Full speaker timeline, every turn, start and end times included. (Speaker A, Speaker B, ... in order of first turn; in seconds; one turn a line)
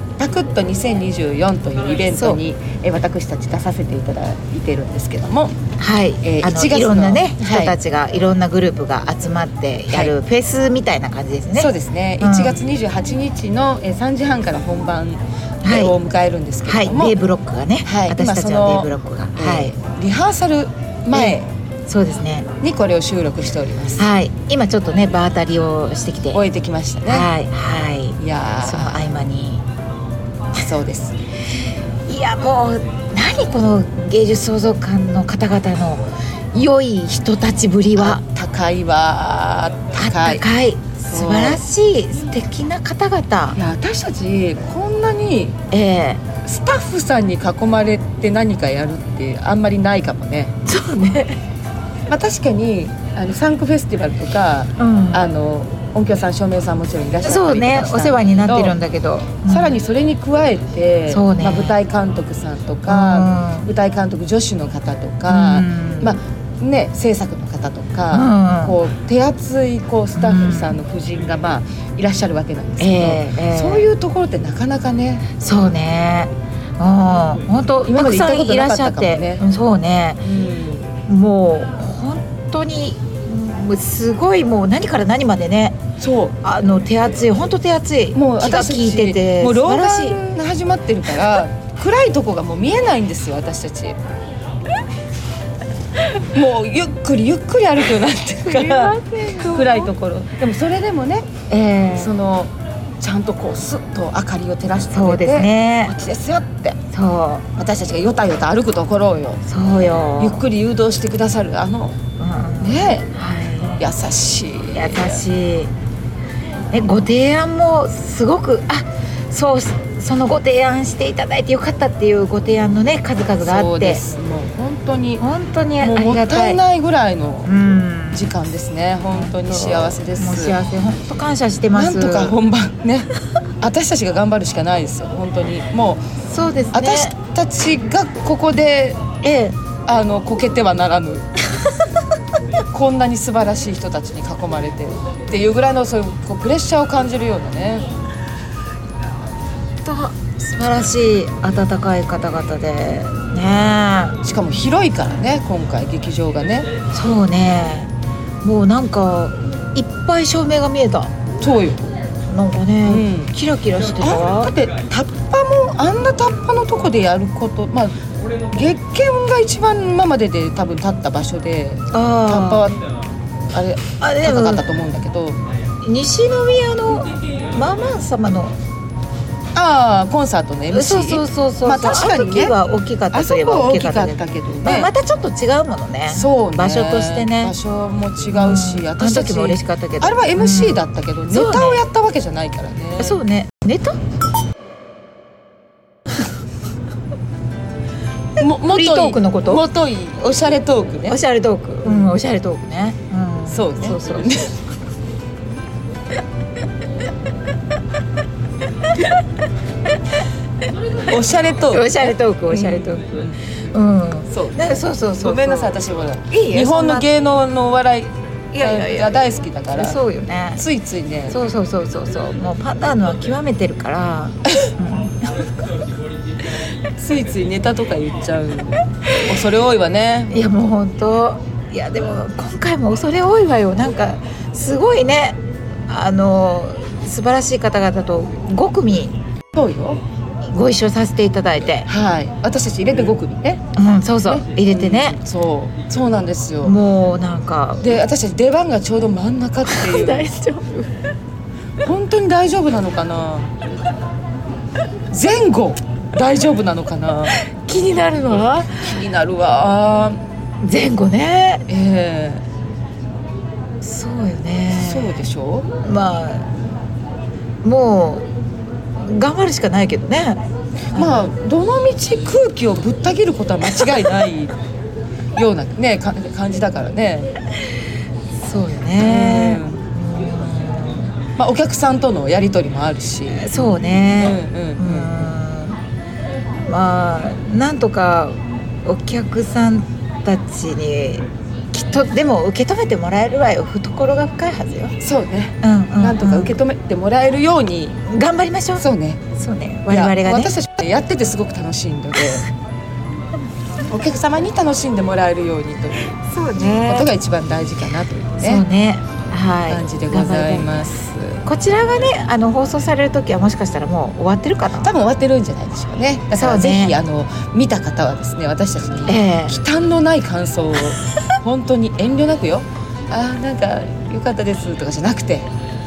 Speaker A: 0.2-5.5
Speaker B: 2.1-2.4
Speaker B: 5.8-12.6
Speaker A: 6.2-7.8
Speaker A: 9.9-10.1
Speaker A: 11.5-17.1
Speaker B: 15.6-15.9
Speaker B: 16.6-19.7
Speaker A: 17.8-21.5
Speaker B: 21.1-22.5
Speaker A: 22.6-24.1
Speaker B: 24.0-26.4
Speaker A: 26.3-27.3
Speaker B: 27.0-29.6
Speaker A: 28.2-29.1
Speaker A: 30.5-31.2
Speaker B: 32.1-38.2
Speaker A: 38.0-40.5
Speaker B: 40.0-43.6
Speaker A: 41.1-41.6
Speaker A: 43.5-45.6
Speaker B: 45.7-46.2
Speaker A: 46.4-50.5
Speaker B: 50.6-51.4
Speaker A: 52.1-58.8
Speaker B: 54.8-55.3
Speaker B: 57.2-59.8
Speaker A: 59.4-75.2
Speaker B: 61.1-61.8
Speaker B: 62.9-63.7
Speaker B: 65.3-66.2
Speaker B: 68.1-68.8
Speaker B: 70.2-70.8
Speaker B: 72.8-73.9
Speaker B: 75.3-80.2
Speaker A: 77.8-79.4
Speaker A: 80.2-80.9
Speaker B: 81.1-85.8
Speaker A: 86.0-86.3
Speaker B: 86.4-90.2
Speaker A: 88.1-94.0
Speaker A: 96.3-106.8
Speaker B: 98.4-99.9
Speaker B: 101.5-102.1
Speaker B: 104.9-105.9
Speaker B: 106.9-107.4
Speaker A: 107.5-109.4
Speaker B: 109.5-110.5
Speaker A: 110.2-112.0
Speaker B: 112.2-113.8
Speaker A: 112.6-113.1
Speaker A: 113.8-115.2
Speaker B: 114.7-115.7
Speaker B: 116.7-124.0
Speaker A: 123.4-125.2
Speaker B: 125.2-126.6
Speaker A: 125.8-127.5
Speaker B: 127.5-128.3
Speaker A: 128.1-130.6
Speaker B: 129.1-132.4
Speaker A: 131.7-136.0
Speaker B: 136.3-137.1
Speaker A: 136.7-139.1
Speaker B: 139.2-139.6
Speaker A: 139.8-141.4
Speaker A: 142.7-147.8
Speaker B: 149.8-154.2
Speaker A: 154.2-156.7
Speaker B: 156.9-157.9
Speaker B: 158.4-161.1
Speaker A: 161.4-161.9
Speaker B: 162.3-164.5
Speaker A: 162.8-163.3
Speaker A: 164.0-167.9
Speaker A: 168.5-172.8
Speaker B: 171.9-172.7
Speaker A: 173.5-175.4
Speaker B: 174.0-174.7
Speaker B: 175.8-178.6
Speaker A: 179.5-182.5
Speaker B: 180.7-187.5
Speaker A: 183.1-184.9
Speaker A: 186.1-193.2
Speaker B: 188.3-191.8
Speaker B: 193.0-194.0
Speaker A: 198.4-201.2
Speaker B: 198.6-199.6
Speaker B: 201.1-204.3
Speaker A: 201.8-202.1
Speaker A: 203.5-204.6
Speaker B: 208.9-209.2
Speaker A: 211.0-213.4
Speaker B: 211.6-215.7
Speaker A: 214.3-220.0
Speaker B: 216.3-217.1
Speaker B: 218.5-219.1
Speaker B: 219.7-220.6
Speaker A: 220.6-221.4
Speaker B: 221.3-225.5
Speaker A: 227.0-230.6
Speaker B: 230.3-239.2
Speaker A: 239.5-240.0
Speaker B: 240.4-241.9
Speaker A: 241.8-243.6
Speaker B: 243.8-245.2
Speaker A: 244.2-246.8
Speaker B: 246.6-248.0
Speaker A: 247.8-250.3
Speaker B: 249.6-251.0
Speaker A: 251.8-253.5
Speaker A: 255.1-257.4
Speaker B: 257.3-258.9
Speaker A: 258.8-260.2
Speaker B: 260.6-261.6
Speaker A: 261.7-262.4
Speaker B: 263.8-265.3
Speaker A: 264.7-265.7
Speaker B: 265.8-266.5
Speaker B: 267.6-268.3
Speaker B: 269.0-270.4
Speaker A: 270.9-274.5
Speaker B: 270.9-271.3
Speaker A: 275.3-277.3
Speaker B: 278.3-281.1
Speaker A: 279.0-279.8
Speaker A: 281.4-283.5
Speaker B: 283.3-285.8
Speaker A: 284.1-285.2
Speaker B: 286.7-294.9
Speaker A: 295.0-298.0
Speaker B: 295.6-296.6
Speaker B: 298.1-300.5
Speaker A: 298.8-299.2
Speaker A: 299.9-302.5
Speaker A: 303.9-306.1
Speaker B: 306.2-307.1
Speaker A: 306.8-308.6
Speaker B: 308.4-310.8
Speaker A: 309.7-311.4
Speaker B: 311.4-314.9
Speaker A: 314.8-325.5
Speaker B: 316.3-317.0
Speaker B: 319.1-319.6